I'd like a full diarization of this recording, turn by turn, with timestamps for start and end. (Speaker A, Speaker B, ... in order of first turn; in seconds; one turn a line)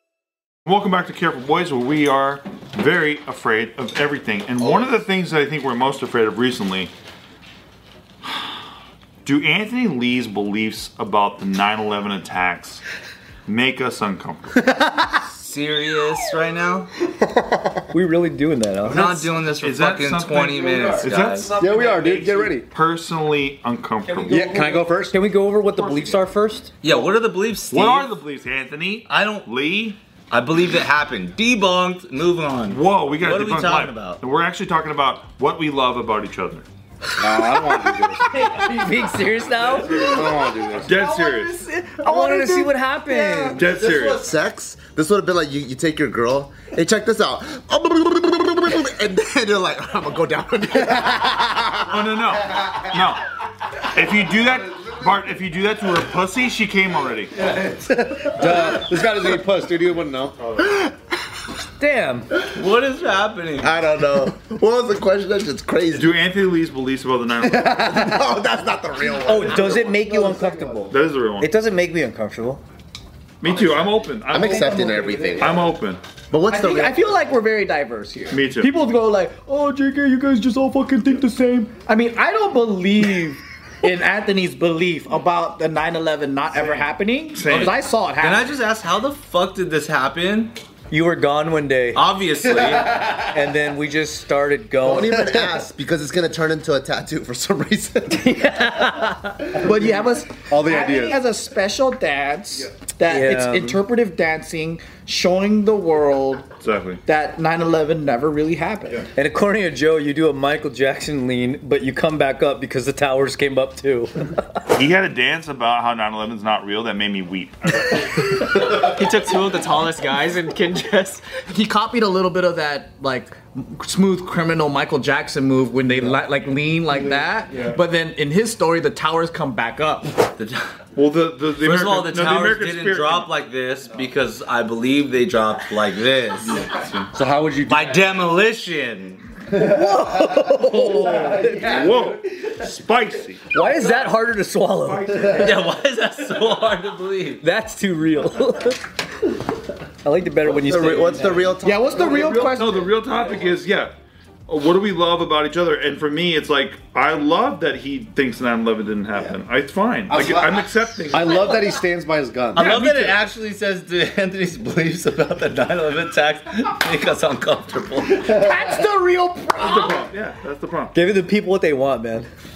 Speaker A: 0.7-6.9
Speaker A: 8.2-8.5
Speaker A: 9.2-12.8
Speaker A: 13.5-14.6
Speaker B: 14.6-15.2
Speaker C: 15.3-16.9
Speaker D: 17.9-19.2
Speaker C: 18.9-21.5
Speaker A: 19.5-24.5
Speaker B: 21.6-22.7
Speaker D: 24.1-26.7
Speaker B: 24.3-25.2
Speaker C: 26.8-28.1
Speaker A: 27.7-30.0
Speaker C: 29.1-29.5
Speaker C: 30.3-34.2
Speaker A: 32.7-36.6
Speaker B: 37.2-38.5
Speaker D: 37.3-40.2
Speaker E: 39.8-44.1
Speaker B: 39.9-41.0
Speaker A: 40.8-41.6
Speaker D: 42.0-43.6
Speaker A: 43.5-44.2
Speaker F: 43.8-52.2
Speaker A: 51.9-53.2
Speaker A: 53.8-57.5
Speaker B: 57.5-60.7
Speaker D: 61.8-62.3
Speaker C: 62.5-63.8
Speaker F: 63.6-66.2
Speaker A: 65.9-68.0
Speaker F: 67.6-70.0
Speaker B: 67.7-68.2
Speaker D: 69.2-72.6
Speaker B: 70.1-70.7
Speaker A: 70.9-71.5
Speaker A: 73.4-76.0
Speaker F: 74.3-75.6
Speaker E: 74.6-74.8
Speaker F: 76.3-77.1
Speaker E: 76.5-88.5
Speaker A: 78.3-78.7
Speaker A: 87.3-87.8
Speaker C: 87.5-90.6
Speaker D: 90.9-92.0
Speaker C: 91.9-93.0
Speaker D: 93.2-95.6
Speaker F: 94.8-98.5
Speaker D: 98.1-99.6
Speaker E: 99.5-106.5
Speaker B: 100.5-101.2
Speaker D: 103.1-103.8
Speaker A: 106.6-107.0
Speaker E: 107.1-109.0
Speaker D: 109.2-114.5
Speaker A: 114.7-118.3
Speaker E: 118.4-130.2
Speaker C: 130.3-130.8
Speaker A: 131.0-133.3
Speaker C: 131.6-136.7
Speaker A: 136.4-137.1
Speaker B: 137.1-138.1
Speaker C: 137.7-139.2
Speaker D: 139.5-141.8
Speaker B: 139.6-141.8
Speaker A: 141.6-143.4
Speaker D: 143.5-145.6
Speaker A: 144.9-145.5
Speaker C: 145.3-147.4
Speaker D: 147.4-148.9
Speaker D: 150.0-151.6
Speaker F: 150.4-152.4
Speaker E: 151.6-153.1
Speaker A: 152.0-153.9
Speaker A: 154.5-161.5
Speaker B: 160.1-162.8
Speaker C: 162.5-168.4
Speaker E: 168.2-170.1
Speaker A: 169.6-170.9
Speaker D: 170.9-172.3